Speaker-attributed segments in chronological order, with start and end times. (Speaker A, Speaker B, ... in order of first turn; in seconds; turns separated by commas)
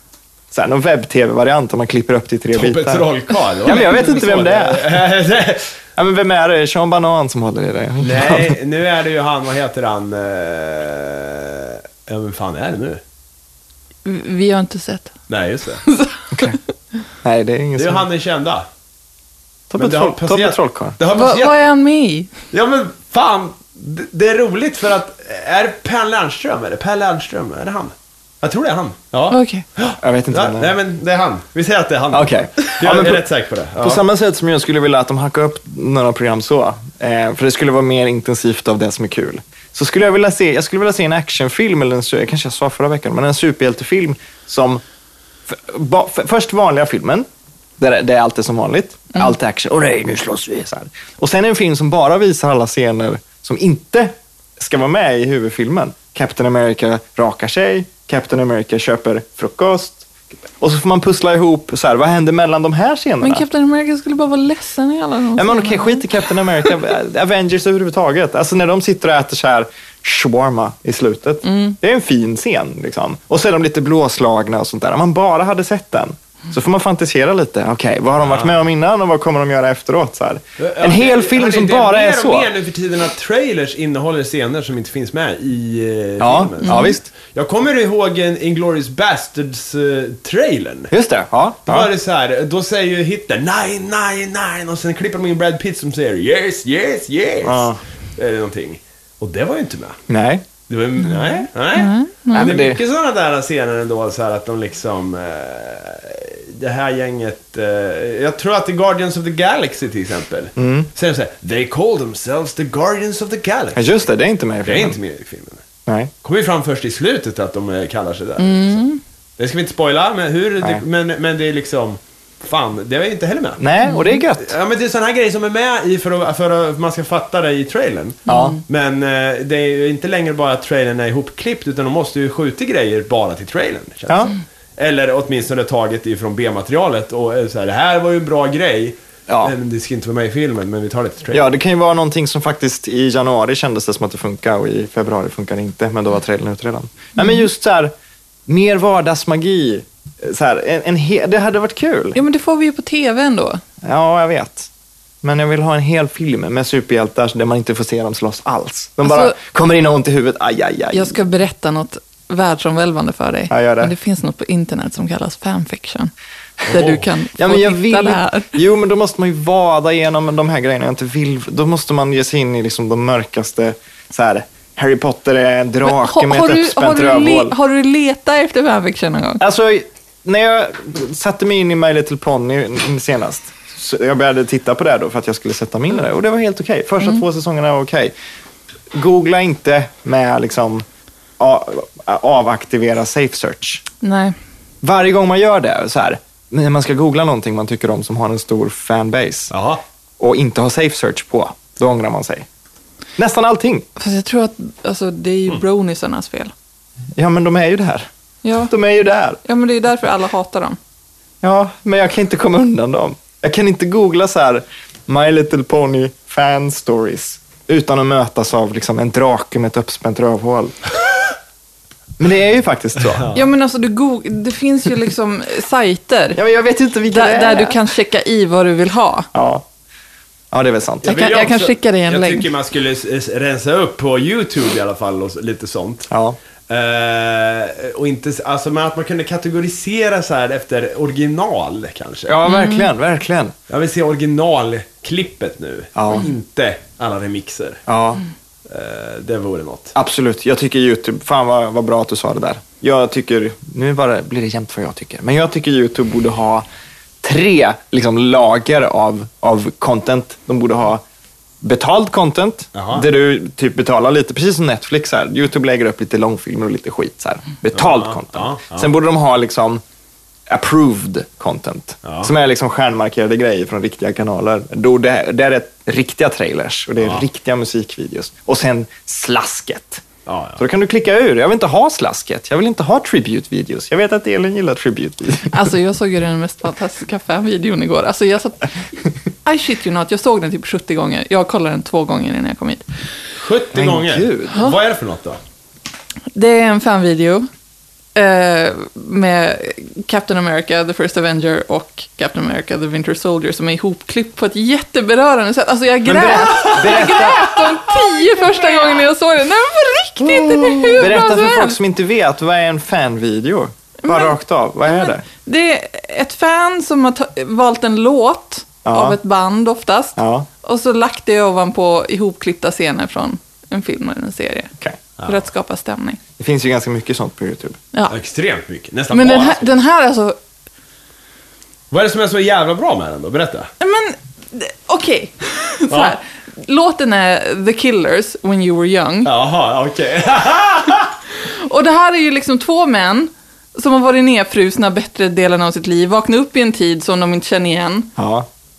Speaker A: 0.5-3.1, Speaker B: 2.5-5.7, Speaker A: 3.6-5.0, Speaker A: 6.0-8.6, Speaker B: 8.0-13.0, Speaker C: 14.0-15.1, Speaker B: 15.3-15.8, Speaker C: 15.8-16.6, Speaker A: 17.2-18.1, Speaker B: 17.8-18.6, Speaker A: 19.7-21.0, Speaker B: 19.8-21.6, Speaker C: 21.1-22.3, Speaker B: 22.5-34.0, Speaker C: 29.3-29.6, Speaker A: 30.0-30.8, Speaker A: 32.1-33.2, Speaker A: 33.8-44.8, Speaker A: 45.5-47.2, Speaker A: 47.8-63.4, Speaker C: 63.2-66.1, Speaker A: 65.3-82.5, Speaker C: 71.4-71.8, Speaker B: 78.2-78.5, Speaker B: 80.6-90.9, Speaker A: 86.2-87.0, Speaker C: 86.7-87.0, Speaker A: 90.9-91.9, Speaker B: 91.7-100.0, Speaker A: 97.4-97.8, Speaker A: 100.1-100.5, Speaker B: 100.7-114.0, Speaker C: 101.1-102.5, Speaker A: 102.3-102.8, Speaker A: 110.6-110.9, Speaker A: 113.7-115.0, Speaker B: 114.6-115.6, Speaker B: 116.2-118.8, Speaker C: 118.4-119.0, Speaker B: 119.4-123.6, Speaker A: 123.6-124.5, Speaker C: 123.8-124.2, Speaker B: 124.4-141.5, Speaker A: 128.3-128.6, Speaker C: 128.3-128.6, Speaker A: 134.1-134.3, Speaker A: 139.3-139.5, Speaker A: 141.3-147.9, Speaker A: 148.5-152.2, Speaker C: 152.1-153.6, Speaker A: 153.8-154.7, Speaker A: 155.2-161.2, Speaker C: 159.0-159.3, Speaker C: 160.9-166.1, Speaker A: 163.5-163.9, Speaker C: 166.7-168.5, Speaker B: 166.7-167.1, Speaker A: 167.3-177.5, Speaker C: 175.8-179.4, Speaker A: 179.4-188.1, Speaker A: 188.9-190.8, Speaker A: 191.4-193.8, Speaker C: 194.0-194.3, Speaker A: 194.8-199.5, Speaker B: 199.5-199.8, Speaker A: 200.2-202.5, Speaker A: 203.2-203.8, Speaker C: 204.0-206.5, Speaker A: 207.1-208.1, Speaker C: 208.4-208.7, Speaker A: 208.7-209.4, Speaker C: 209.4-210.8, Speaker A: 211.4-220.8, Speaker A: 222.2-223.3, Speaker B: 223.1-223.4, Speaker C: 223.3-226.4, Speaker A: 226.3-227.8, Speaker C: 227.1-229.3, Speaker A: 229.3-229.7, Speaker A: 230.5-231.1, Speaker B: 231.0-236.1, Speaker C: 231.0-232.5, Speaker A: 236.1-236.4, Speaker B: 236.7-242.3, Speaker A: 242.3-243.5, Speaker C: 242.4-242.9, Speaker B: 243.7-247.8, Speaker A: 245.9-246.3, Speaker A: 247.9-248.2, Speaker B: 248.7-249.9, Speaker A: 249.9-256.6, Speaker A: 257.2-261.0, Speaker A: 261.6-269.8, Speaker B: 262.7-263.1, Speaker B: 267.7-268.9, Speaker A: 270.5-280.1, Speaker B: 272.0-272.3, Speaker B: 280.2-280.6, Speaker A: 280.6-285.6, Speaker C: 285.5-288.8, Speaker C: 289.4-292.8, Speaker B: 293.4-295.4, Speaker A: 293.7-294.6, Speaker C: 296.3-297.5, Speaker C: 298.1-311.8, Speaker A: 306.1-307.7, Speaker B: 306.6-306.9, Speaker A: 310.4-315.2, Speaker C: 314.0-314.4, Speaker C: 314.9-324.7, Speaker A: 318.8-319.2, Speaker A: 320.2-320.5, Speaker B: 325.2-325.4, Speaker C: 325.2-326.2, Speaker A: 326.4-327.8, Speaker B: 328.1-329.7, Speaker C: 329.1-330.4, Speaker B: 331.9-333.7, Speaker C: 333.8-339.3, Speaker B: 335.9-336.1, Speaker B: 339.2-341.1, Speaker C: 341.4-348.1, Speaker A: 348.2-348.5